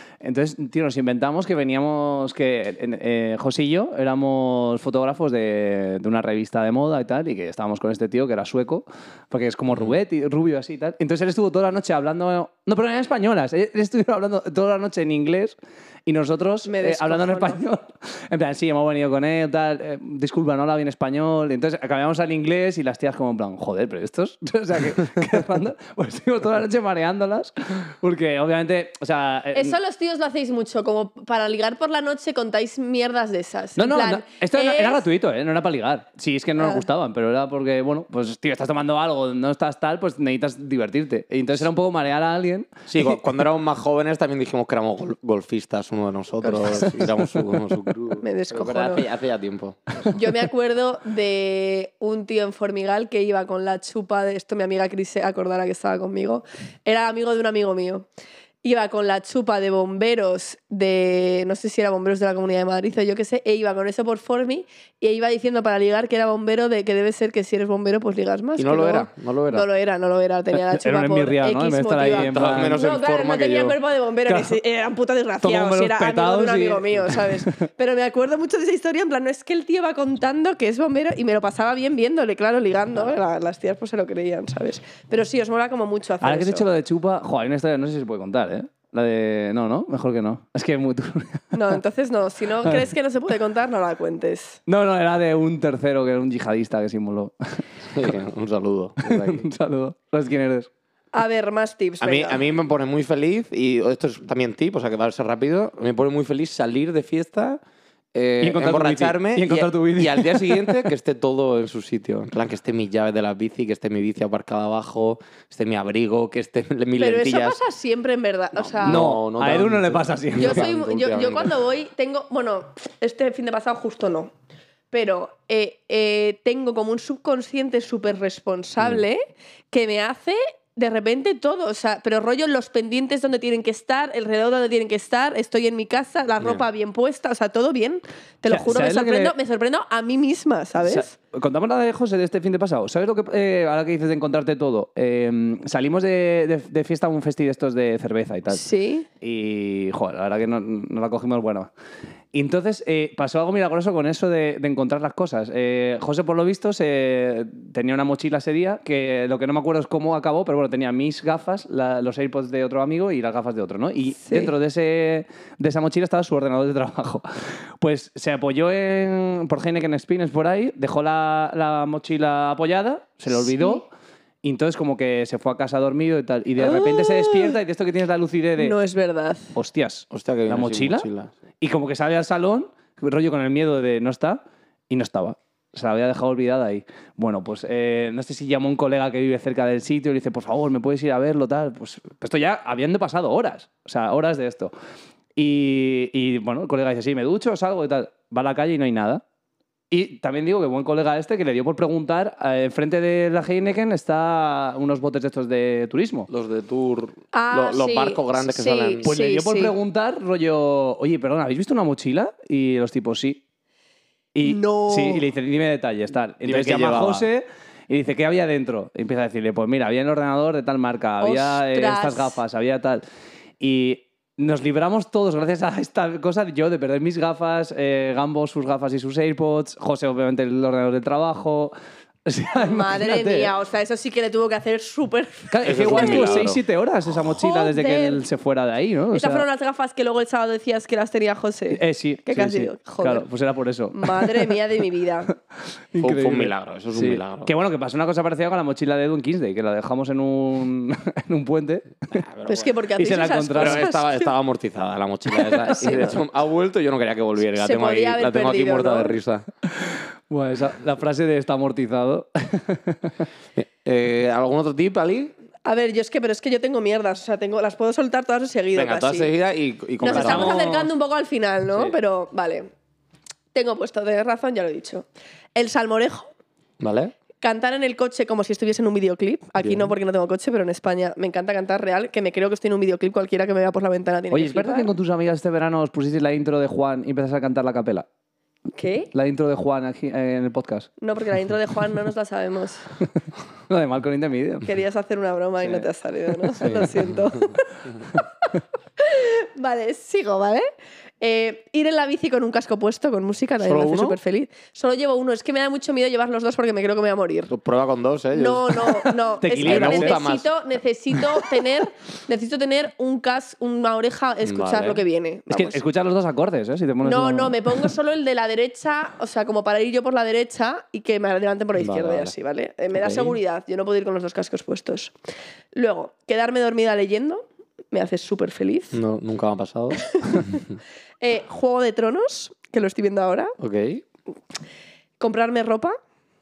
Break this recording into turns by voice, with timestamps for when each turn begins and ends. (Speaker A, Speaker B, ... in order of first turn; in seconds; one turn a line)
Speaker A: 0.2-29.8
Speaker B: 16.7-17.6
Speaker B: 29.5-35.0
Speaker A: 33.8-42.8
Speaker B: 36.6-36.8
Speaker C: 42.9-50.1
Speaker B: 46.6-46.9
Speaker B: 48.2-49.0
Speaker B: 50.1-58.1
Speaker B: 58.6-86.7
Speaker C: 68.6-69.7
Speaker A: 70.5-72.8
Speaker C: 72.1-73.8
Speaker A: 74.3-74.6
Speaker A: 75.4-77.6
Speaker A: 86.2-91.5
Speaker B: 91.5-94.6
Speaker A: 94.7-98.1
Speaker C: 97.9-99.5
Speaker A: 99.0-100.7
Speaker B: 101.1-102.4
Speaker C: 102.0-107.6
Speaker C: 108.1-117.6
Speaker A: 108.4-110.9
Speaker B: 117.0-119.1
Speaker C: 118.6-121.6
Speaker A: 118.8-120.7
Speaker B: 120.4-124.3
Speaker B: 124.9-141.1
Speaker A: 138.5-139.3
Speaker A: 140.8-148.6
Speaker B: 148.5-149.1
Speaker A: 149.2-151.7
Speaker A: 152.3-173.9
Speaker B: 164.2-164.5
Speaker B: 173.3-173.8
Speaker A: 174.4-178.8
Speaker B: 176.6-177.6
Speaker B: 178.6-179.5
Speaker A: 179.6-181.1
Speaker C: 180.1-181.3
Speaker A: 181.6-194.7
Speaker A: 195.4-199.2
Speaker A: 199.9-206.3
Speaker C: 206.3-209.1
Speaker B: 207.3-209.7
Speaker A: 209.0-213.4
Speaker A: 214.3-223.0
Speaker B: 214.4-215.2
Speaker C: 216.4-217.3
Speaker B: 221.2-222.4
Speaker A: 223.6-231.8
Speaker A: 232.3-233.5
Speaker B: 232.5-236.5
Speaker A: 235.5-239.4
Speaker C: 235.6-236.6
Speaker B: 237.2-238.2
Speaker B: 239.1-243.3
Speaker A: 241.7-244.5
Speaker B: 243.9-245.3
Speaker A: 245.9-252.2
Speaker C: 246.0-247.5
Speaker C: 252.1-252.7
Speaker B: 252.5-254.3
Speaker A: 253.0-253.9
Speaker C: 253.5-259.5
Speaker B: 255.4-256.2
Speaker B: 257.6-259.2
Speaker A: 259.7-263.1
Speaker C: 263.6-265.3
Speaker B: 265.6-269.3
Speaker C: 268.7-270.7
Speaker B: 270.0-272.7
Speaker A: 270.1-270.9
Speaker B: 273.5-275.1
Speaker B: 275.6-276.3
Speaker C: 276.8-277.1
Speaker B: 277.4-284.9
Speaker C: 279.6-279.9
Speaker A: 284.3-288.1
Speaker B: 288.8-289.1
Speaker A: 289.1-290.9
Speaker B: 291.0-292.8
Speaker A: 293.7-294.7
Speaker B: 294.6-297.7
Speaker A: 295.6-295.9
Speaker A: 296.5-296.8
Speaker C: 296.6-297.4
Speaker B: 299.0-300.7
Speaker B: 301.2-307.5
Speaker C: 303.6-304.2
Speaker C: 307.5-309.0
Speaker B: 308.3-315.8
Speaker A: 309.4-310.2
Speaker C: 309.6-310.5
Speaker C: 314.4-315.0
Speaker A: 315.5-317.9
Speaker B: 317.0-325.1
Speaker C: 321.8-322.3
Speaker C: 322.9-323.4
Speaker B: 325.7-329.0
Speaker C: 328.9-330.6
Speaker B: 330.0-330.6
Speaker B: 331.2-333.6
Speaker C: 333.6-334.0
Speaker B: 335.2-336.0